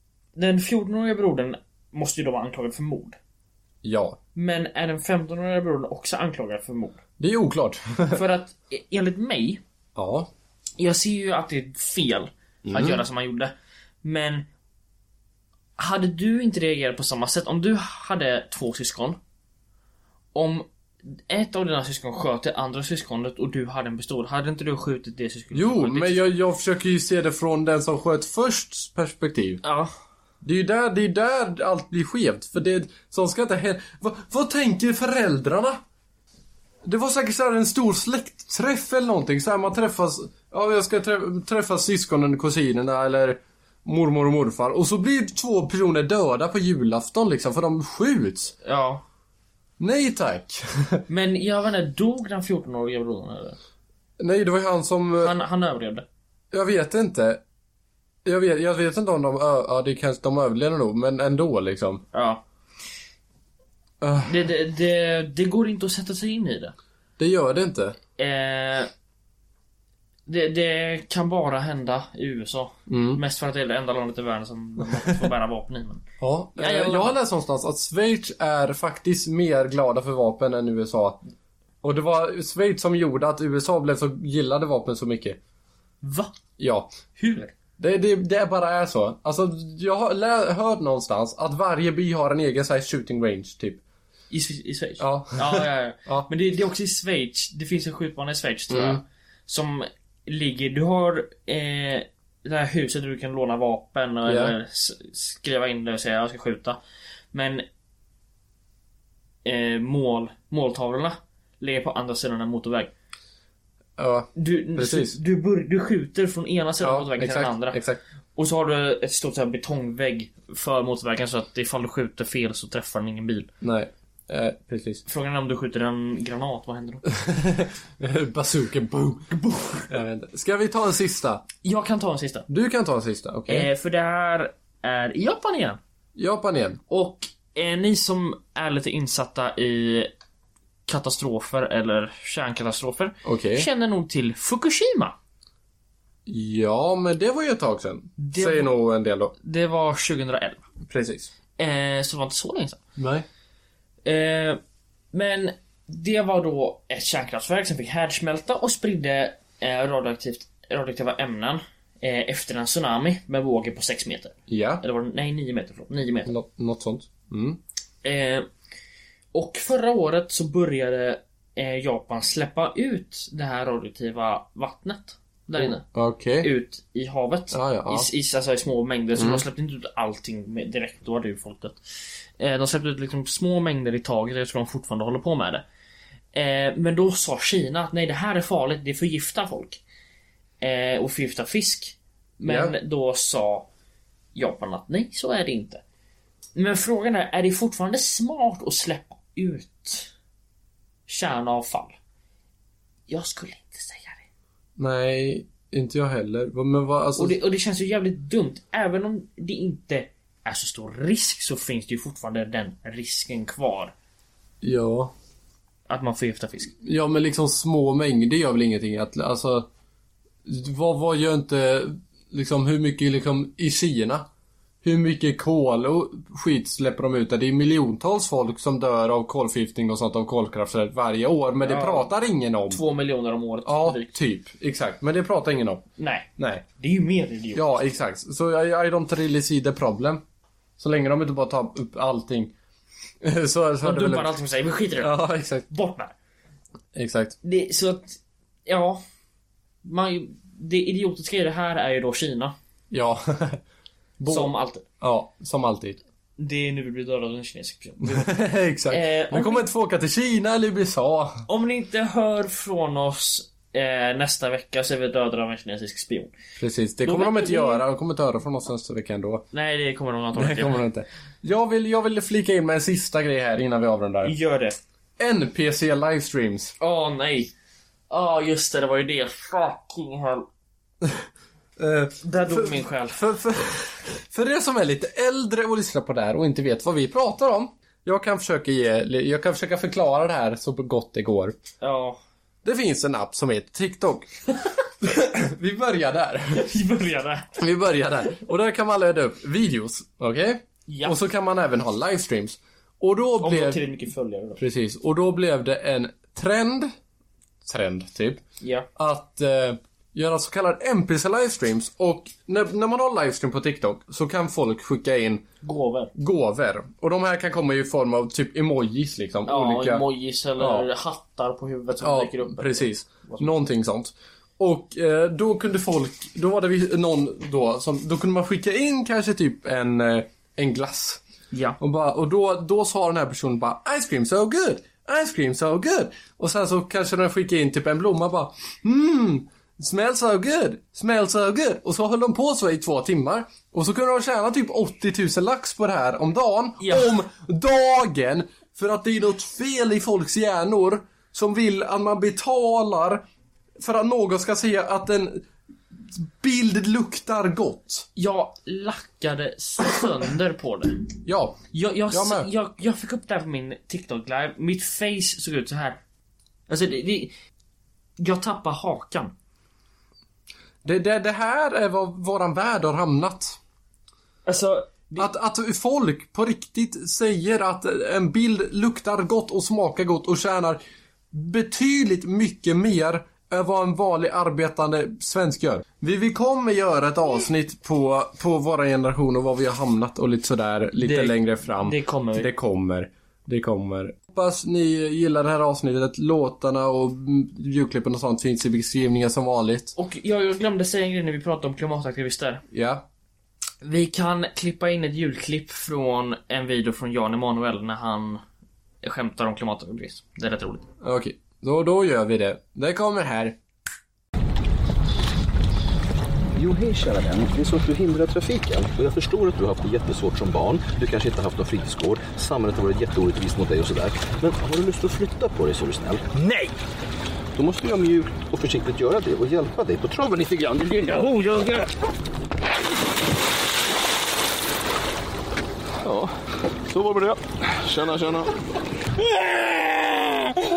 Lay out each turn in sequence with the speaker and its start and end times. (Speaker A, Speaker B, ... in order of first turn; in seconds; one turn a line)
Speaker A: 0.4-3.2
Speaker B: 3.8-4.2
Speaker A: 4.3-7.0
Speaker B: 7.2-8.2
Speaker A: 8.1-9.6
Speaker B: 10.0-10.3
Speaker A: 10.8-13.5
Speaker B: 12.6-13.0
Speaker A: 14.0-14.5
Speaker A: 15.8-19.2
Speaker A: 20.4-20.7
Speaker A: 21.3-26.3
Speaker B: 25.5-29.6
Speaker A: 29.6-29.9
Speaker B: 30.4-35.8
Speaker B: 36.9-48.5
Speaker A: 48.6-49.0
Speaker B: 49.8-51.0
Speaker A: 51.1-53.6
Speaker B: 54.2-55.4
Speaker A: 55.2-56.0
Speaker B: 56.5-57.4
Speaker B: 58.2-62.0
Speaker A: 62.1-62.4
Speaker B: 64.0-64.4
Speaker A: 64.2-66.7
Speaker B: 67.2-68.0
Speaker A: 68.2-68.9
Speaker A: 70.3-76.0
Speaker B: 72.9-73.2
Speaker B: 76.2-81.2
Speaker A: 76.6-77.2
Speaker B: 81.8-85.4
Speaker A: 86.0-86.3
Speaker B: 86.6-87.0
Speaker A: 87.2-87.5
Speaker B: 87.8-93.8
Speaker A: 94.3-106.8
Speaker B: 95.0-96.3
Speaker B: 98.7-99.0
Speaker B: 104.2-104.5
Speaker A: 107.3-107.7
Speaker A: 109.5-112.9
Speaker B: 114.0-115.2
Speaker A: 114.4-117.8
Speaker B: 116.8-118.0
Speaker A: 118.3-123.5
Speaker B: 123.6-125.0
Speaker A: 125.0-127.0
Speaker B: 127.2-129.3
Speaker A: 129.3-129.9
Speaker B: 129.9-131.4
Speaker A: 131.6-132.5
Speaker B: 132.5-133.7
Speaker A: 133.5-135.8
Speaker B: 136.1-136.8
Speaker A: 136.9-140.1
Speaker A: 140.9-145.1
Speaker B: 143.2-143.7
Speaker B: 146.3-149.3
Speaker A: 148.2-148.8
Speaker A: 149.4-150.6
Speaker B: 150.8-151.3
Speaker A: 151.6-152.8
Speaker B: 153.0-153.2
Speaker A: 154.1-154.6
Speaker A: 155.1-166.3
Speaker B: 164.5-164.8
Speaker B: 166.3-167.6
Speaker A: 168.0-168.5
Speaker A: 169.3-175.8
Speaker B: 175.6-176.5
Speaker A: 176.4-181.8
Speaker B: 177.5-178.1
Speaker B: 179.1-179.4
Speaker A: 182.4-185.6
Speaker A: 186.3-189.8
Speaker A: 190.6-193.7
Speaker B: 192.4-192.7
Speaker A: 194.3-195.8
Speaker A: 196.6-200.1
Speaker A: 201.1-202.0
Speaker A: 203.1-204.2
Speaker B: 204.8-207.4
Speaker A: 207.2-213.9
Speaker B: 214.6-215.1
Speaker A: 215.9-216.7
Speaker B: 216.8-219.7
Speaker B: 220.4-224.3
Speaker B: 224.8-232.8
Speaker A: 231.6-232.1
Speaker A: 232.7-234.1
Speaker B: 233.7-235.8
Speaker A: 236.0-237.9
Speaker B: 236.4-236.6
Speaker B: 237.5-240.2
Speaker B: 240.8-242.5
Speaker B: 243.2-244.3
Speaker A: 243.8-246.1
Speaker B: 245.0-245.6
Speaker B: 246.9-247.4
Speaker A: 247.4-249.0
Speaker A: 249.8-252.6
Speaker B: 252.9-253.6
Speaker B: 254.2-256.0
Speaker A: 254.3-254.8
Speaker A: 256.4-258.4
Speaker B: 258.1-261.5
Speaker A: 258.9-259.6
Speaker A: 261.5-266.3
Speaker B: 266.6-269.4
Speaker A: 267.1-267.8
Speaker A: 269.5-270.8
Speaker B: 270.4-274.4
Speaker A: 274.2-274.8
Speaker B: 275.2-276.7
Speaker A: 276.8-277.5
Speaker A: 278.1-280.5
Speaker B: 281.8-291.6
Speaker A: 282.2-283.2
Speaker A: 291.8-292.2
Speaker B: 292.6-294.3
Speaker B: 295.0-296.7
Speaker A: 296.6-297.5
Speaker B: 297.6-303.8
Speaker A: 300.9-301.2
Speaker A: 303.4-304.6
Speaker B: 304.6-306.9
Speaker B: 307.6-308.4
Speaker A: 308.6-308.9
Speaker B: 309.0-315.4
Speaker A: 315.6-316.1
Speaker B: 316.1-320.9
Speaker A: 319.5-323.5
Speaker B: 322.0-331.2
Speaker A: 331.5-331.8
Speaker B: 331.8-353.2
Speaker A: 346.8-347.1
Speaker B: 353.8-355.5
Speaker B: 356.1-358.1
Speaker A: 358.2-361.1
Speaker B: 361.2-362.5
Speaker A: 361.7-366.0
Speaker A: 366.7-367.3
Speaker A: 368.2-369.3
Speaker B: 370.8-373.6
Speaker A: 374.5-375.3
Speaker B: 375.2-380.8
Speaker B: 381.3-399.9
Speaker A: 391.0-392.5
Speaker A: 400.0-402.6
Speaker B: 402.7-403.1
Speaker A: 403.8-408.4
Speaker A: 409.0-410.9
Speaker B: 411.0-413.6
Speaker C: 416.6-426.7
Speaker C: 427.6-431.9
Speaker C: 436.0-436.4
Speaker C: 436.9-438.5